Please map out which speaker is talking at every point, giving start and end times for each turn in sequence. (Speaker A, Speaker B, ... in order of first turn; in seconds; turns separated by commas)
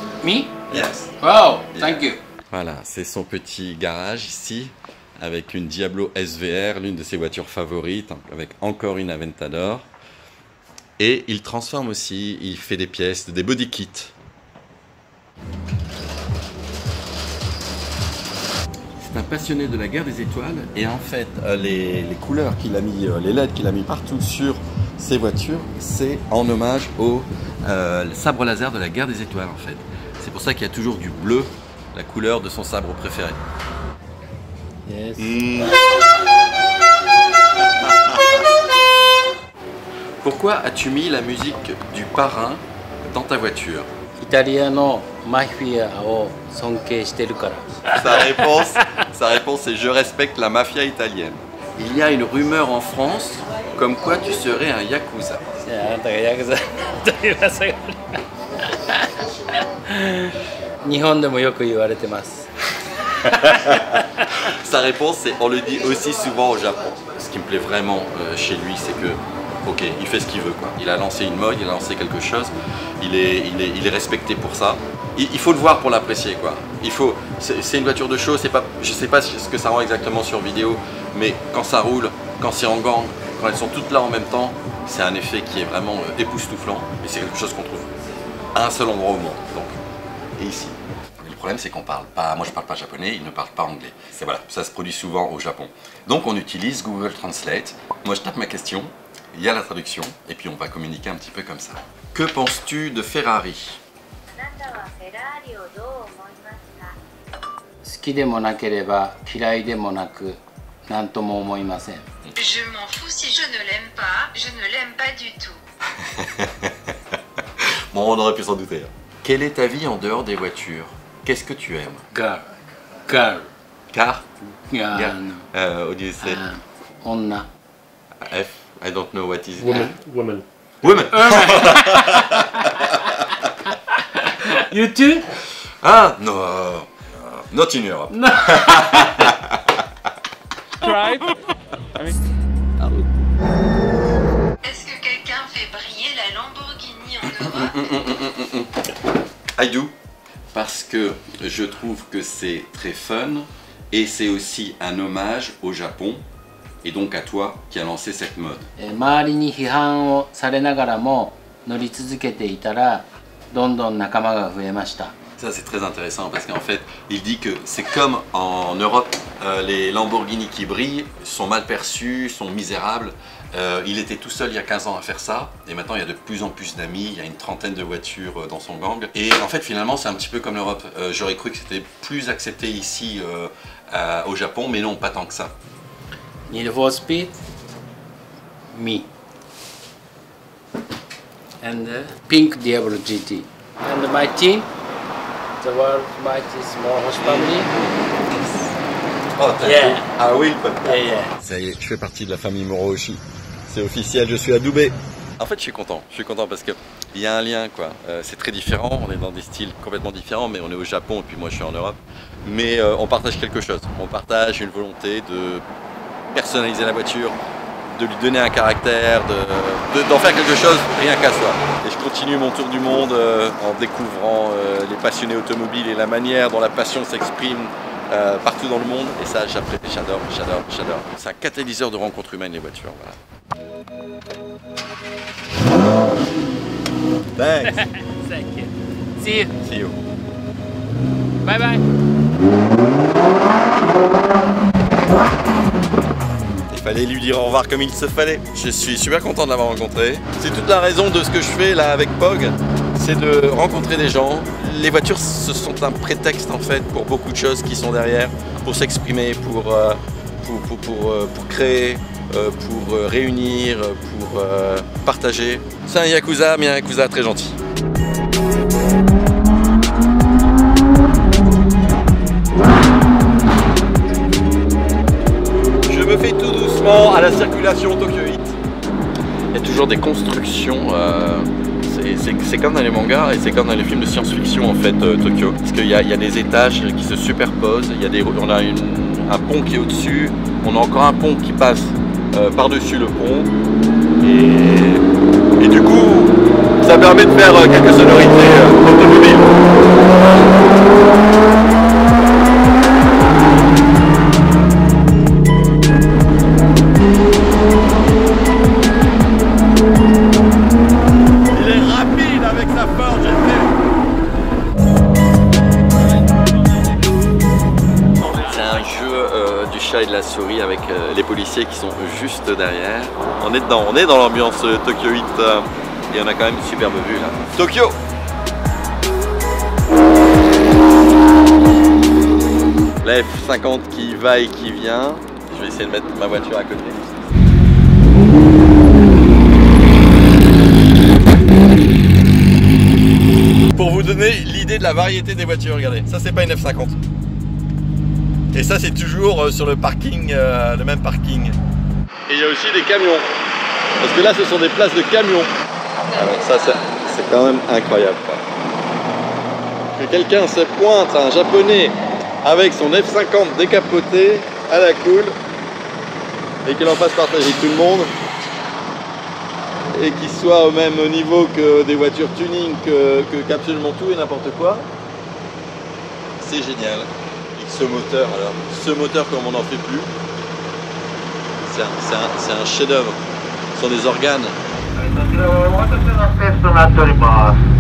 Speaker A: 0.2-2.2, Speaker B: 0.7-1.1, Speaker B: 1.7-9.9, Speaker B: 11.0-14.1, Speaker B: 19.0-33.4, Speaker A: 34.9-35.4, Speaker B: 35.2-35.8, Speaker B: 37.8-38.3, Speaker B: 40.2-43.9, Speaker A: 44.2-48.4, Speaker B: 48.0-55.4, Speaker A: 55.6-58.0, Speaker A: 59.9-60.3, Speaker A: 60.8-62.5, Speaker A: 63.2-64.0, Speaker B: 64.4-87.9, Speaker B: 88.5-89.8, Speaker B: 90.4-103.8, Speaker C: 104.3-107.0, Speaker A: 107.8-112.1, Speaker C: 112.3-115.6, Speaker B: 116.0-116.9, Speaker B: 117.9-122.0, Speaker A: 122.1-122.4, Speaker A: 123.1-123.5, Speaker B: 123.9-124.3, Speaker A: 124.7-125.5, Speaker B: 124.9-126.4, Speaker A: 126.2-127.5, Speaker B: 128.2-129.9, Speaker D: 130.0-130.4, Speaker B: 130.8-132.9, Speaker A: 131.1-132.2, Speaker A: 134.4-135.3, Speaker B: 135.8-139.7, Speaker A: 138.1-139.2, Speaker C: 144.6-147.9, Speaker B: 147.5-148.7, Speaker B: 149.6-149.9, Speaker B: 150.5-156.2, Speaker B: 156.8-158.7, Speaker A: 158.8-165.1, Speaker B: 165.4-185.5, Speaker A: 186.5-187.3, Speaker A: 188.7-189.1, Speaker A: 191.6-194.7, Speaker A: 195.6-198.7, Speaker B: 199.3-215.6, Speaker A: 199.6-200.1, Speaker A: 200.8-201.3, Speaker B: 216.3-217.4, Speaker B: 217.9-233.2, Speaker B: 237.4-237.8, Speaker A: 237.6-239.5, Speaker B: 239.6-240.0, Speaker A: 241.4-241.8, Speaker B: 246.7-267.6, Speaker B: 275.9-278.6, Speaker B: 279.5-293.5, Speaker B: 294.2-295.0, Speaker B: 295.6-299.6, Speaker B: 311.5-313.7, Speaker B: 318.2-328.0, Speaker B: 333.0-337.1, Speaker B: 343.7-347.0, Speaker B: 348.5-351.6, Speaker B: 352.3-353.3, Speaker B: 354.0-355.5, Speaker B: 356.1-358.4, Speaker B: 359.9-365.3, Speaker B: 366.6-368.1, Speaker B: 369.9-374.9, Speaker B: 376.4-380.1, Speaker B: 381.6-383.2, Speaker B: 383.7-384.6, Speaker D: 384.9-387.6